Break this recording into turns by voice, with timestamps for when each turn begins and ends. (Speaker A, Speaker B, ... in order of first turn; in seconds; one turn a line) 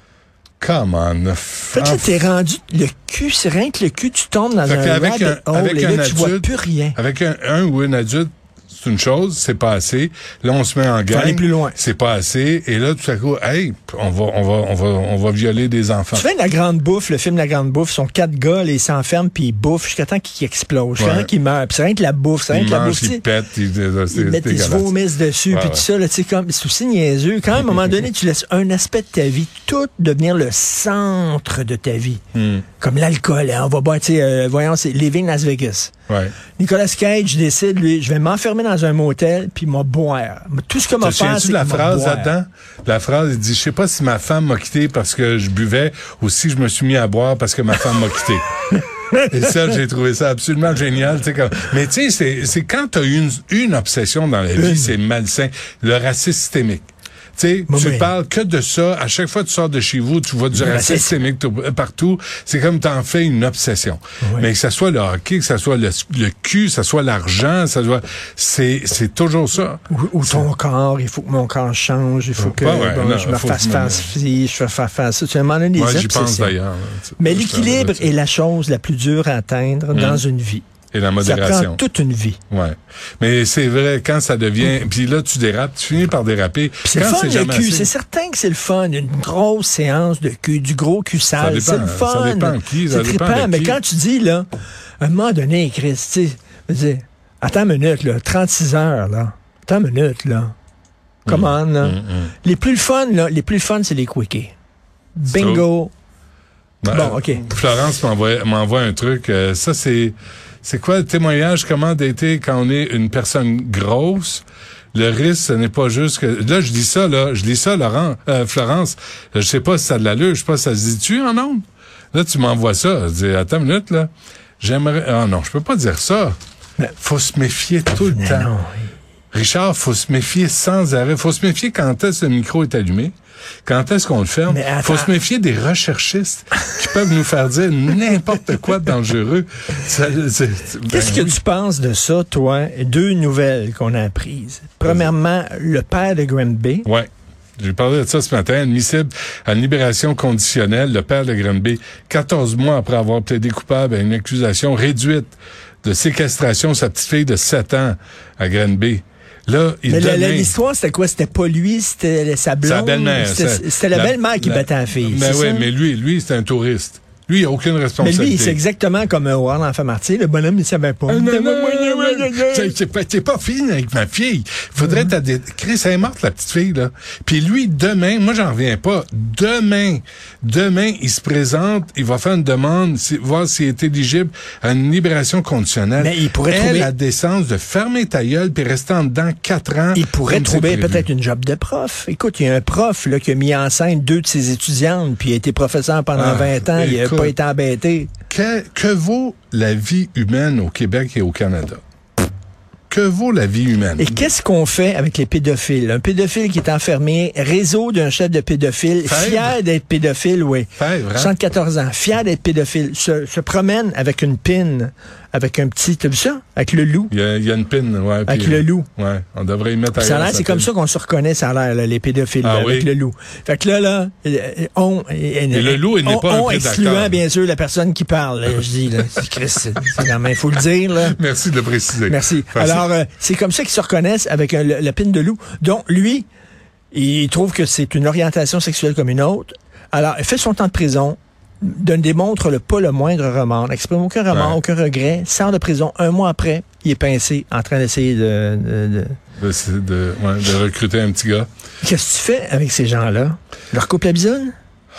Speaker A: 0.6-2.2
Speaker B: 1.7-7.0
Speaker A: 4.6-16.3
Speaker B: 11.1-11.8
Speaker B: 16.1-23.2
Speaker A: 21.0-21.3
Speaker A: 22.5-24.9
Speaker B: 24.1-32.2
Speaker A: 25.5-25.9
Speaker A: 32.3-32.6
Speaker B: 32.8-35.9
Speaker A: 36.1-36.3
Speaker B: 36.6-42.3
Speaker A: 41.0-48.5
Speaker A: 49.3-70.5
Speaker B: 54.5-54.9
Speaker B: 57.7-58.1
Speaker B: 60.5-61.1
Speaker B: 64.2-64.5
Speaker B: 69.9-76.6
Speaker A: 72.4-74.1
Speaker A: 75.7-78.1
Speaker B: 77.2-80.7
Speaker A: 79.9-80.2
Speaker A: 80.9-81.8
Speaker B: 81.2-82.4
Speaker A: 82.5-87.9
Speaker B: 86.8-94.5
Speaker A: 91.4-93.8
Speaker B: 95.0-100.5
Speaker A: 101.2-102.3
Speaker B: 101.3-104.5
Speaker B: 105.2-105.9
Speaker A: 105.3-105.7
Speaker A: 106.8-126.3
Speaker B: 106.9-107.4
Speaker A: 127.0-128.5
Speaker B: 128.0-128.9
Speaker A: 129.3-133.1
Speaker A: 133.6-141.3
Speaker B: 134.5-135.1
Speaker B: 140.9-146.9
Speaker A: 144.8-145.1
Speaker A: 146.8-160.5
Speaker B: 159.8-165.7
Speaker A: 162.6-168.6
Speaker B: 168.0-172.8
Speaker A: 171.1-191.1
Speaker B: 174.8-175.1
Speaker B: 186.0-186.9
Speaker B: 189.9-198.1
Speaker A: 196.1-197.3
Speaker A: 198.3-201.8
Speaker A: 202.9-204.3
Speaker B: 204.0-217.1
Speaker A: 209.0-209.6
Speaker A: 210.8-211.3
Speaker A: 217.1-220.7
Speaker B: 218.2-218.9
Speaker B: 219.9-231.2
Speaker A: 222.4-222.9
Speaker A: 225.5-227.2
Speaker A: 231.0-232.8
Speaker B: 232.1-236.3
Speaker B: 236.9-249.2
Speaker A: 244.3-244.6
Speaker A: 249.4-251.5
Speaker B: 251.8-254.5